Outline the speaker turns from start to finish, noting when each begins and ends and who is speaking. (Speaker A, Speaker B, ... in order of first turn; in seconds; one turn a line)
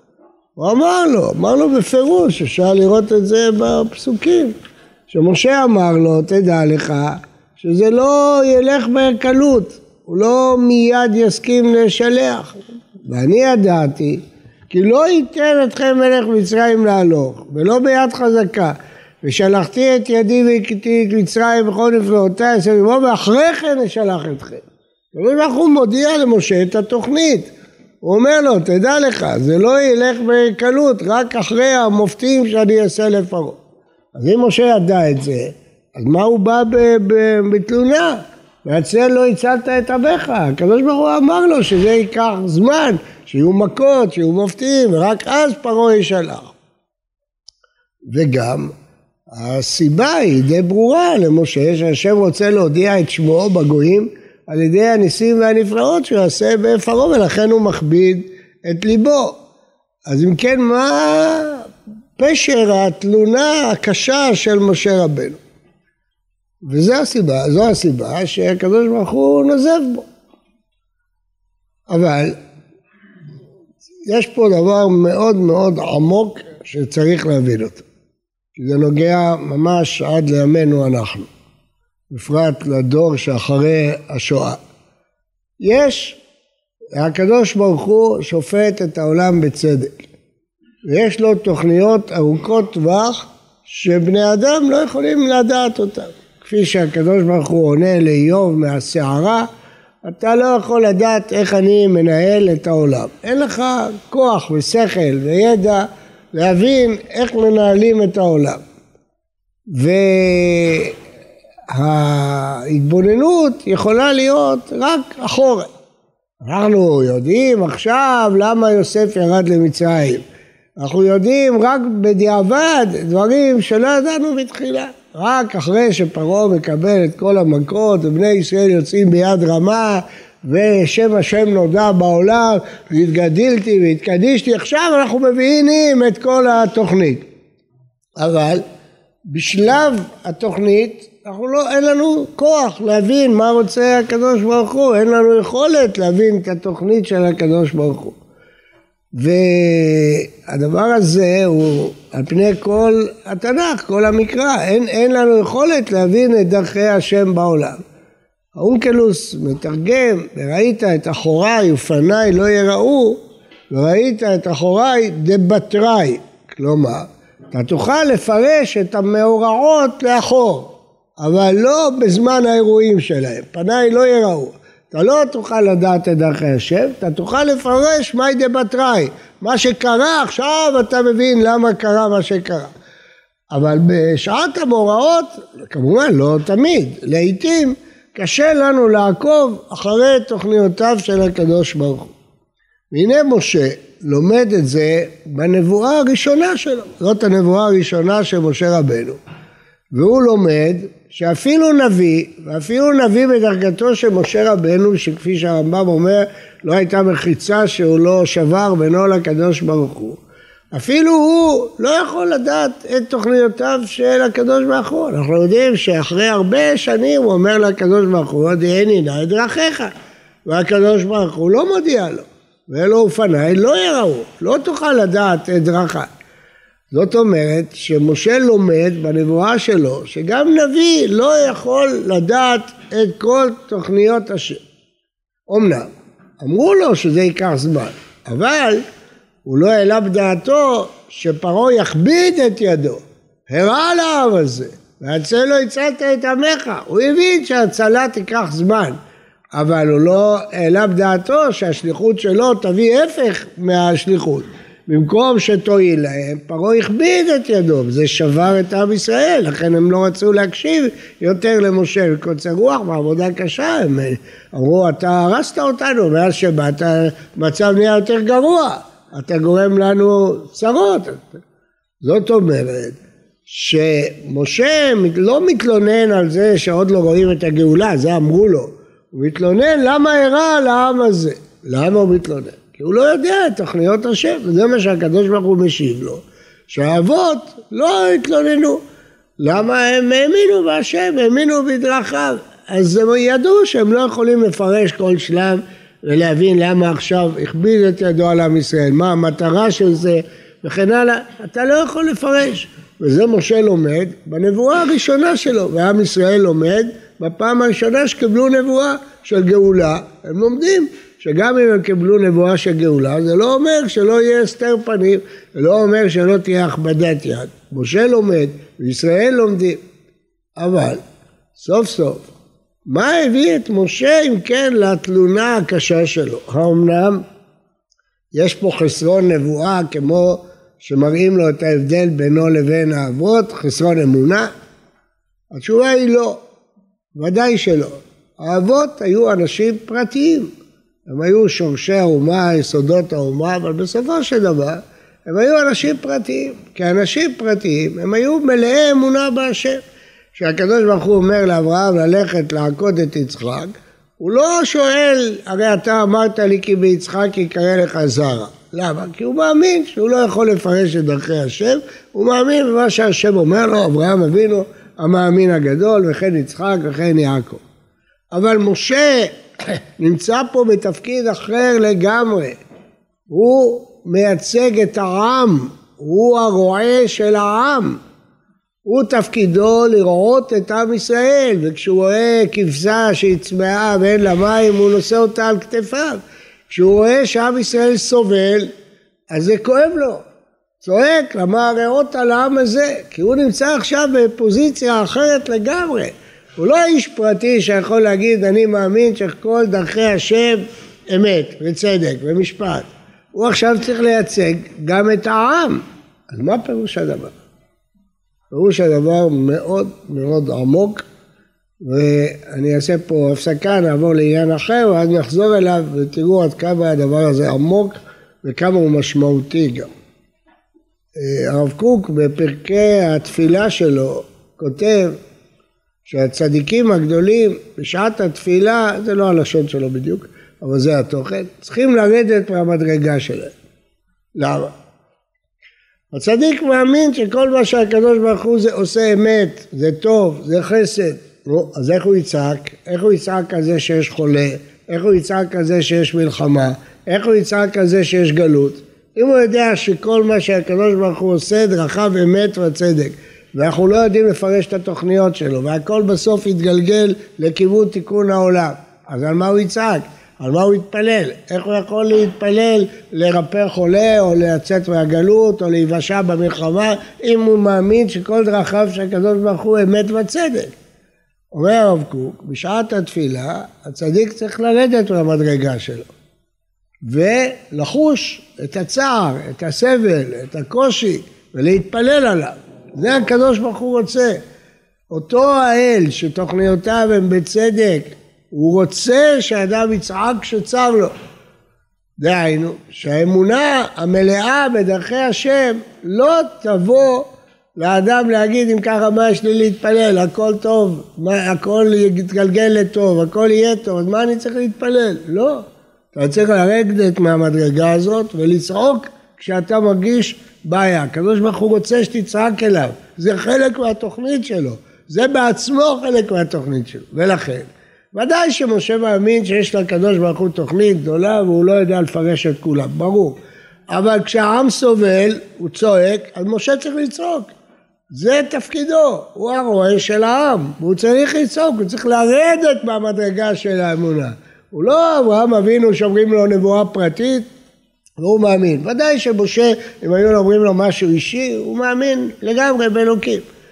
Speaker A: 0.6-4.5
Speaker A: 5.1-27.5
Speaker A: 28.0-33.6
Speaker A: 34.1-46.5
Speaker A: 48.1-48.7
Speaker A: 49.3-59.4
Speaker A: 60.1-65.4
Speaker A: 66.6-70.1
Speaker A: 71.9-72.4
Speaker A: 74.1-77.8
Speaker A: 78.5-81.3
Speaker A: 82.1-84.6
Speaker A: 85.6-86.2
Speaker A: 87.0-90.1
Speaker A: 90.9-99.5
Speaker A: 100.0-108.6
Speaker A: 109.7-111.0
Speaker A: 111.7-115.7
Speaker A: 116.4-120.2
Speaker A: 120.8-137.3
Speaker A: 138.2-138.6
Speaker A: 139.3-148.2
Speaker A: 149.2-157.8
Speaker A: 158.6-182.7
Speaker A: 183.5-192.1
Speaker A: 192.9-199.2
Speaker A: 199.9-210.2
Speaker A: 210.7-219.9
Speaker A: 220.5-226.1
Speaker A: 226.9-234.6
Speaker A: 235.5-238.8
Speaker A: 239.5-249.0
Speaker A: 249.5-271.4
Speaker A: 272.0-288.8
Speaker A: 289.4-319.8
Speaker A: 320.6-321.0
Speaker A: 321.6-322.3
Speaker A: 322.9-327.2
Speaker A: 328.3-334.5
Speaker A: 335.5-336.4
Speaker A: 337.1-340.5
Speaker A: 341.1-349.8
Speaker A: 350.3-367.6
Speaker A: 368.3-372.6
Speaker A: 373.3-378.0
Speaker A: 378.9-388.7
Speaker A: 389.3-390.2
Speaker A: 390.8-407.3
Speaker A: 408.5-411.0
Speaker A: 411.8-419.9
Speaker A: 421.2-425.2
Speaker A: 426.1-433.5
Speaker A: 434.4-434.7
Speaker A: 436.1-470.7
Speaker A: 471.5-476.1
Speaker A: 477.1-484.4
Speaker A: 485.1-491.1
Speaker A: 492.2-523.4
Speaker A: 523.9-527.5
Speaker A: 528.1-537.5
Speaker A: 538.2-543.5